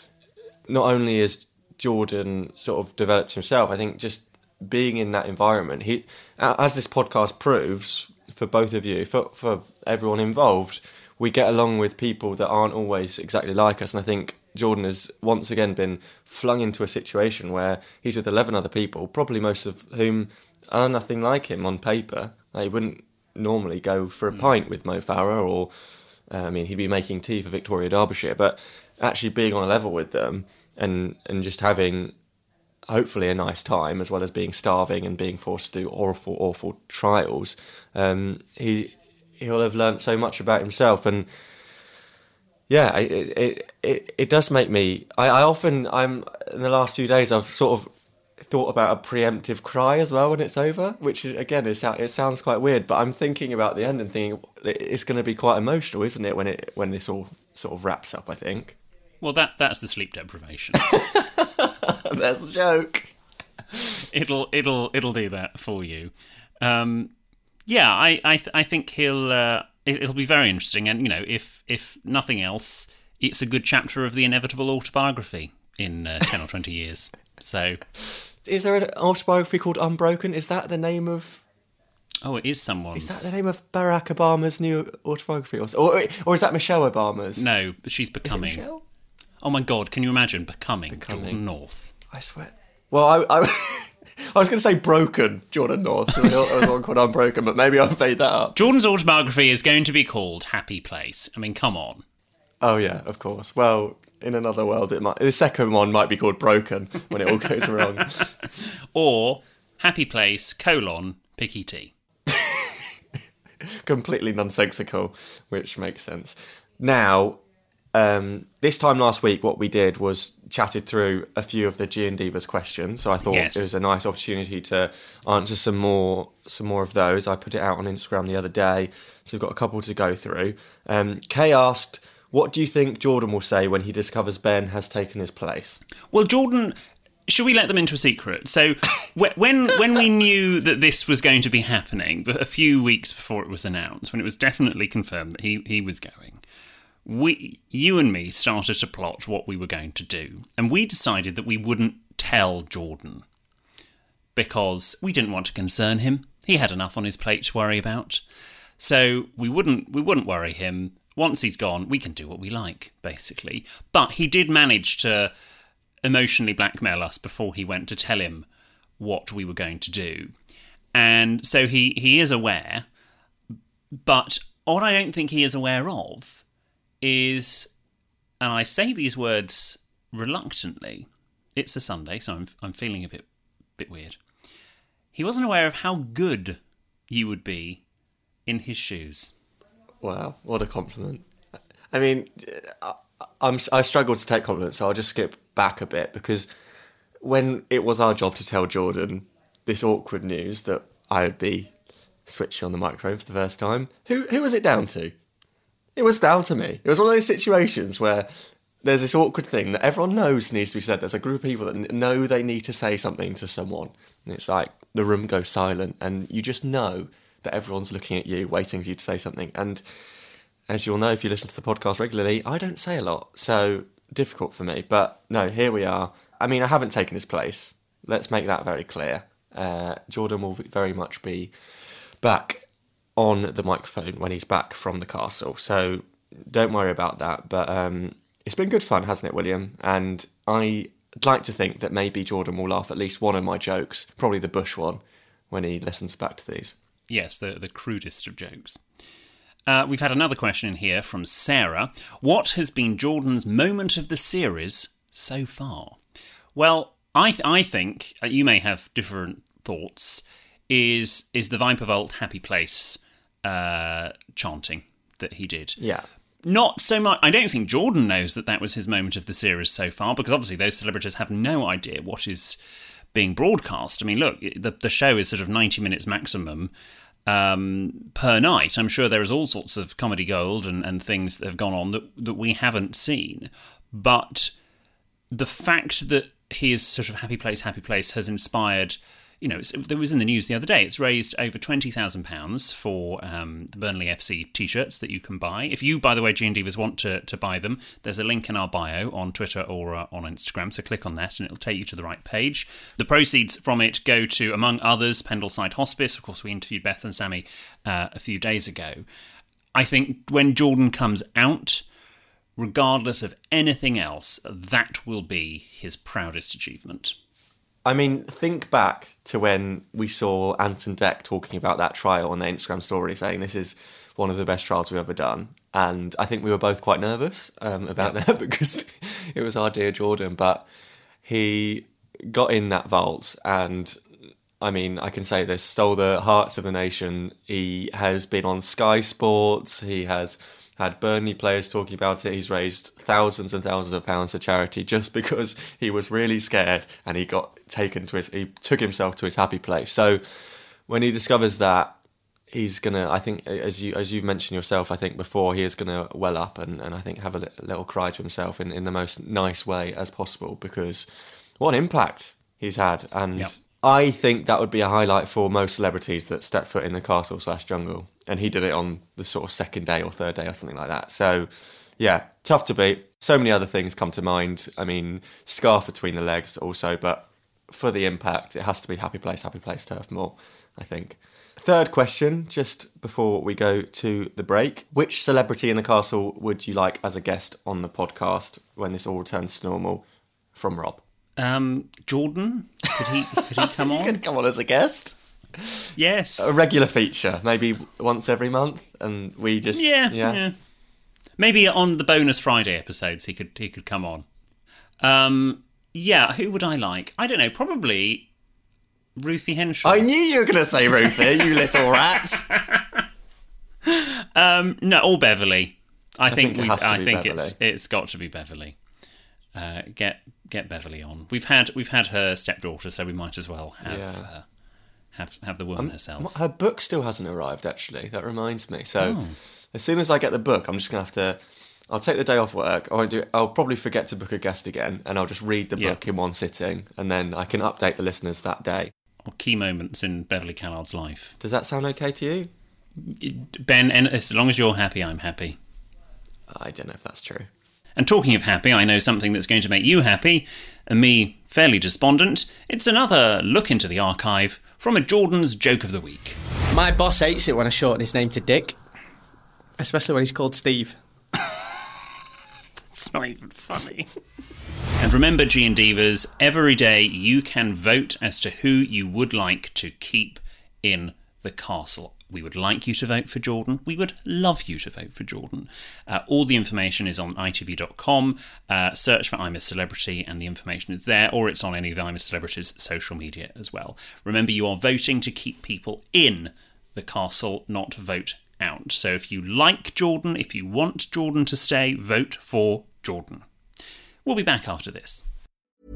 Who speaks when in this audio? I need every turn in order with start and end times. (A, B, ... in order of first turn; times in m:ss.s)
0:00.7-0:25.7 A
0:26.3-0:32.1 A
0:32.9-0:41.3 A
0:42.7-0:58.8 A
0:59.2-1:00.8 B
1:00.8-1:03.2 A
1:04.0-1:07.1 B
1:07.7-1:17.8 B
1:18.4-1:21.4 A
1:22.2-1:23.3 B
1:23.0-1:27.5 A
1:27.4-1:28.7 B
1:28.2-1:28.8 A
1:29.4-1:31.9 B
1:30.9-1:31.4 A
1:32.1-1:38.6 A
1:38.6-1:42.0 B
1:42.6-1:48.3 A
1:48.9-1:51.9 B
1:52.3-1:52.8 A
1:53.8-1:57.4 A
1:57.9-2:15.8 A
2:03.2-2:03.7 B
2:16.1-2:16.8 B
2:17.3-2:26.4 B
2:27.0-2:33.2 B
2:34.4-2:38.2 B
2:38.8-2:45.3 B
2:46.0-2:48.5 B
2:49.0-2:50.3 B
2:50.9-2:52.9 B
2:54.0-2:56.4 B
2:57.0-2:57.7 B
2:58.4-3:03.3 B
3:03.8-3:04.2 B
3:05.1-3:06.6 B
3:07.1-3:07.8 B
3:08.5-3:09.3 B
3:10.0-3:11.2 A
3:11.9-3:16.5 A
3:17.2-3:21.7 A
3:22.3-3:25.2 A
3:26.0-3:28.3 A
3:28.8-3:39.8 A
3:40.7-3:51.5 A
3:52.2-3:52.7 A
3:53.2-4:06.8 A
4:07.1-4:08.8 B
4:09.7-4:16.0 B
4:16.6-4:25.8 B
4:25.8-4:26.1 A
4:26.4-4:32.6 B
4:33.1-4:36.7 B
4:37.3-4:44.5 B
4:45.3-5:09.0 B
5:09.8-5:11.8 B
5:12.6-5:17.2 B
5:17.8-5:30.7 A
5:31.2-5:34.0 A
5:34.6-5:52.0 A
5:52.5-6:01.1 A
6:01.6-6:30.0 A
6:30.6-6:31.0 A
6:31.4-6:34.2 B
6:33.0-6:35.9 A
6:36.0-6:36.6 B
6:36.4-6:40.4 A
6:39.8-6:40.5 B
6:41.4-6:44.2 B
6:45.0-6:48.3 B
6:49.2-6:50.1 B
6:49.8-6:52.5 A
6:50.9-6:53.1 B
6:53.8-6:58.8 B
6:56.3-6:57.6 A
6:59.5-7:04.5 B
7:03.8-7:04.3 A
7:05.1-7:06.3 B
7:05.8-7:09.2 A
7:09.0-7:09.4 B
7:09.7-7:18.9 A
7:19.2-7:21.4 B
7:21.4-7:22.5 A
7:23.0-7:25.6 B
7:26.5-7:27.5 A
7:28.0-7:36.4 B
7:36.7-7:38.8 C
7:39.8-7:41.0 C
7:45.0-8:13.5 B
8:14.2-8:15.2 B